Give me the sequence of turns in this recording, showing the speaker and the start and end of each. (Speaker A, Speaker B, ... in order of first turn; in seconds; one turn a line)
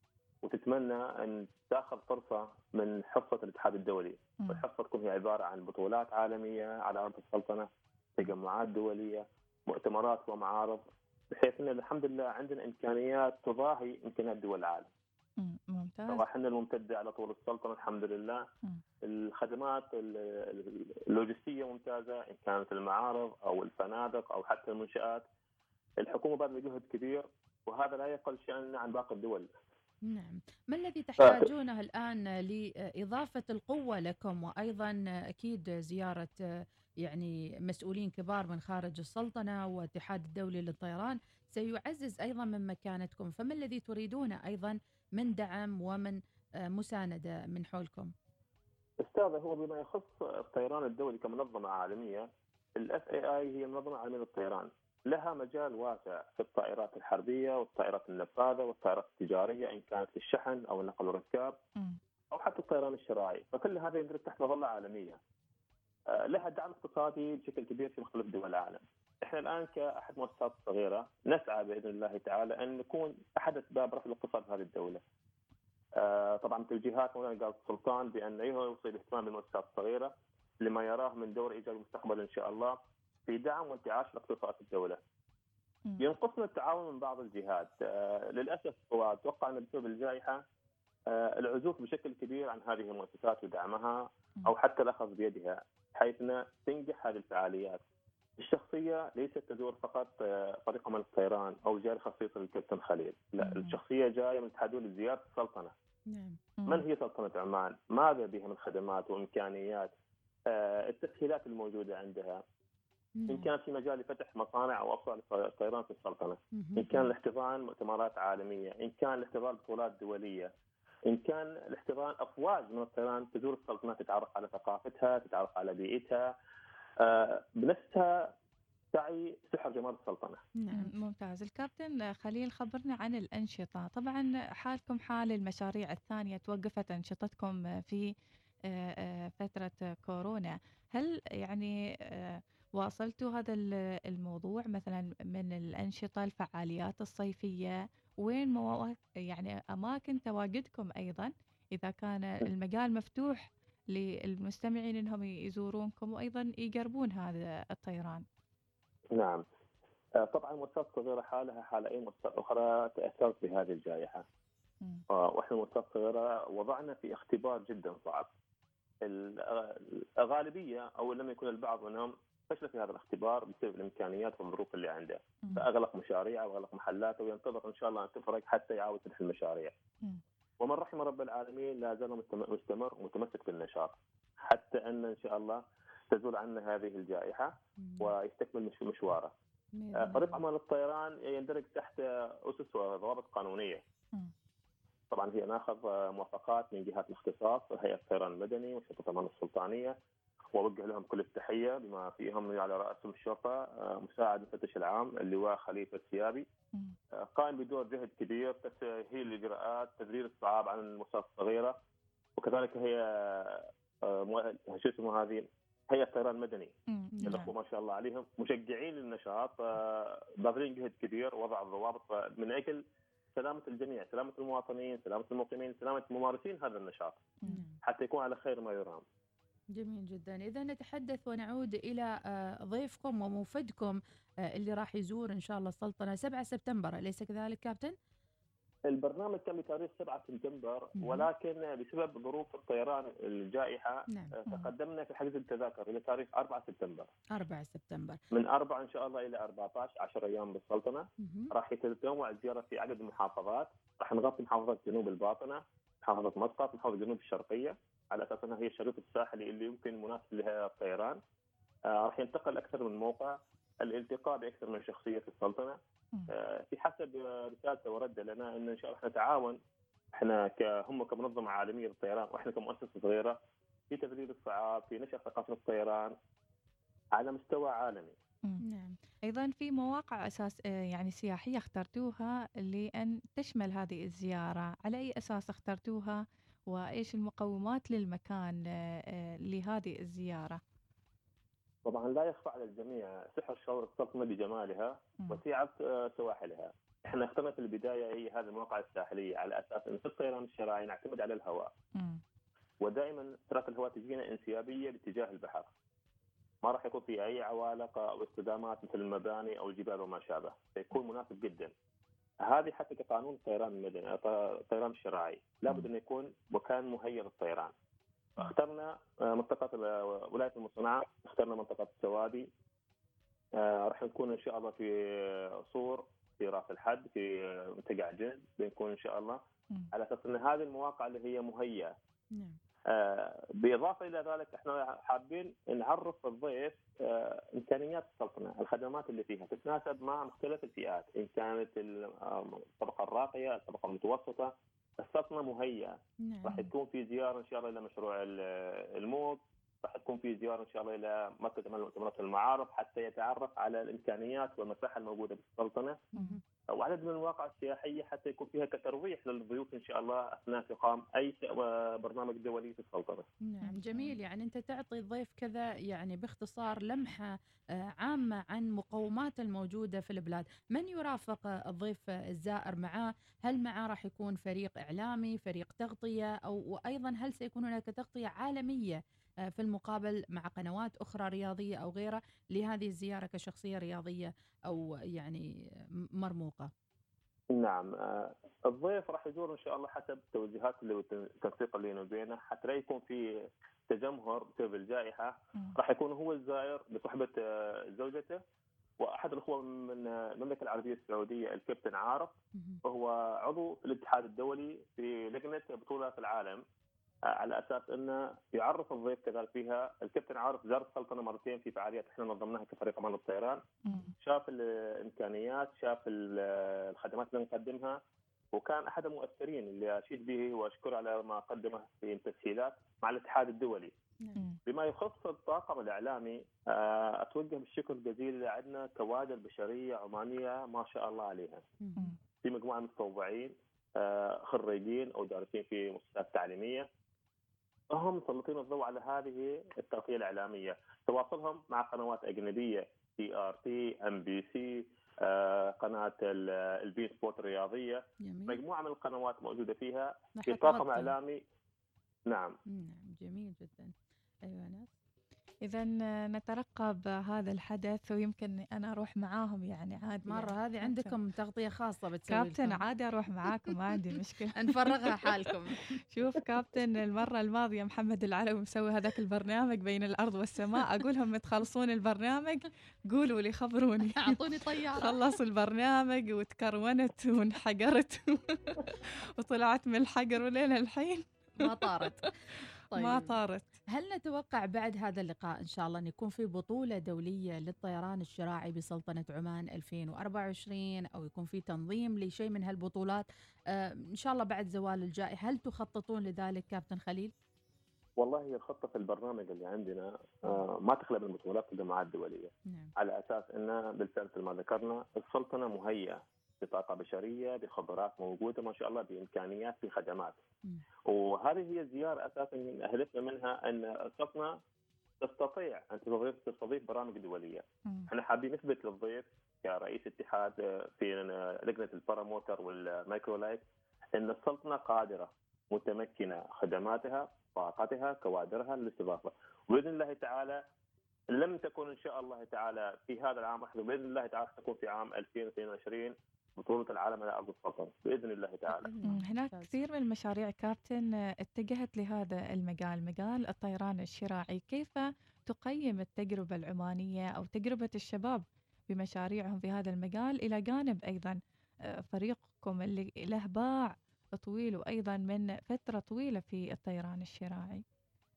Speaker A: 0.4-14.9
Speaker B: 15.4-16.2
Speaker A: 16.1-18.4
Speaker A: 19.1-25.2
Speaker A: 26.0-29.5
Speaker C: 30.1-36.3
Speaker A: 31.2-31.5
Speaker C: 37.0-46.2
Speaker C: 46.7-48.1
Speaker A: 49.0-61.6
Speaker A: 62.3-65.2
Speaker A: 66.1-75.0
Speaker A: 76.0-85.0
Speaker A: 86.0-90.4
Speaker A: 91.1-97.8
Speaker A: 98.4-105.7
Speaker B: 103.4-103.8
Speaker C: 106.1-106.4
Speaker B: 106.6-106.9
Speaker A: 106.7-109.9
Speaker A: 110.5-112.4
Speaker C: 113.2-113.5
Speaker A: 113.3-120.5
Speaker C: 116.5-117.1
Speaker A: 121.1-126.3
Speaker A: 127.0-128.3
Speaker A: 128.9-130.4
Speaker C: 130.6-130.9
Speaker B: 130.8-138.1
Speaker B: 138.7-158.2
Speaker A: 159.2-159.4
Speaker A: 160.2-164.2
Speaker A: 165.1-168.3
Speaker A: 169.1-179.7
Speaker A: 180.6-189.3
Speaker C: 187.8-188.1
Speaker C: 189.8-190.4
Speaker A: 190.0-193.8
Speaker A: 195.1-199.9
Speaker A: 200.5-206.5
Speaker A: 207.2-211.8
Speaker A: 212.4-216.7
Speaker B: 216.9-217.5
Speaker C: 217.2-217.5
Speaker A: 217.2-222.8
Speaker A: 223.4-227.2
Speaker C: 227.5-227.8
Speaker A: 227.8-229.1
Speaker C: 229.8-237.9
Speaker A: 238.9-247.1
Speaker C: 241.0-241.3
Speaker C: 244.1-244.3
Speaker C: 247.3-248.2
Speaker A: 248.3-261.2
Speaker C: 251.2-251.5
Speaker A: 261.9-265.8
Speaker A: 266.3-269.6
Speaker A: 270.1-273.4
Speaker A: 273.9-276.1
Speaker A: 277.1-278.1
Speaker C: 278.6-279.0
Speaker B: 279.2-288.6
Speaker B: 289.1-290.6
Speaker A: 291.9-301.7
Speaker B: 301.9-302.2
Speaker A: 302.8-305.7
Speaker A: 306.6-311.7
Speaker A: 312.5-317.7
Speaker A: 318.4-322.5
Speaker A: 323.6-329.4
Speaker A: 329.9-331.9
Speaker A: 332.9-356.0
Speaker C: 346.2-346.7
Speaker B: 356.1-356.4
Speaker C: 356.1-356.4
Speaker A: 356.7-363.3
Speaker C: 363.5-367.3
Speaker B: 363.6-364.1
Speaker C: 368.0-379.0
Speaker C: 379.5-385.4
Speaker C: 386.2-386.7
Speaker A: 387.5-393.2
Speaker A: 393.9-397.4
Speaker A: 397.9-398.4
Speaker A: 399.0-402.3
Speaker C: 402.6-402.8
Speaker A: 402.9-406.6
Speaker A: 407.4-413.6
Speaker B: 413.9-414.1
Speaker A: 414.2-418.0
Speaker A: 418.5-423.9
Speaker A: 424.7-431.6
Speaker C: 431.8-432.1
Speaker A: 432.4-436.9
Speaker A: 437.9-451.4
Speaker C: 448.2-448.6
Speaker C: 450.4-451.1
Speaker A: 452.3-452.6
Speaker C: 452.7-453.9
Speaker C: 454.5-454.9
Speaker B: 455.6-461.1
Speaker C: 460.3-462.8
Speaker B: 462.3-464.7
Speaker C: 464.6-465.8
Speaker B: 466.1-474.4
Speaker C: 474.2-475.2
Speaker B: 475.0-481.7
Speaker C: 481.6-482.2
Speaker C: 482.9-483.4
Speaker B: 482.9-483.7
Speaker C: 483.9-497.3
Speaker A: 498.2-510.4
Speaker A: 511.1-514.6
Speaker A: 515.2-523.6
Speaker A: 524.1-530.6
Speaker A: 531.3-538.9
Speaker C: 538.8-539.8
Speaker B: 539.1-551.4
Speaker B: 552.0-557.8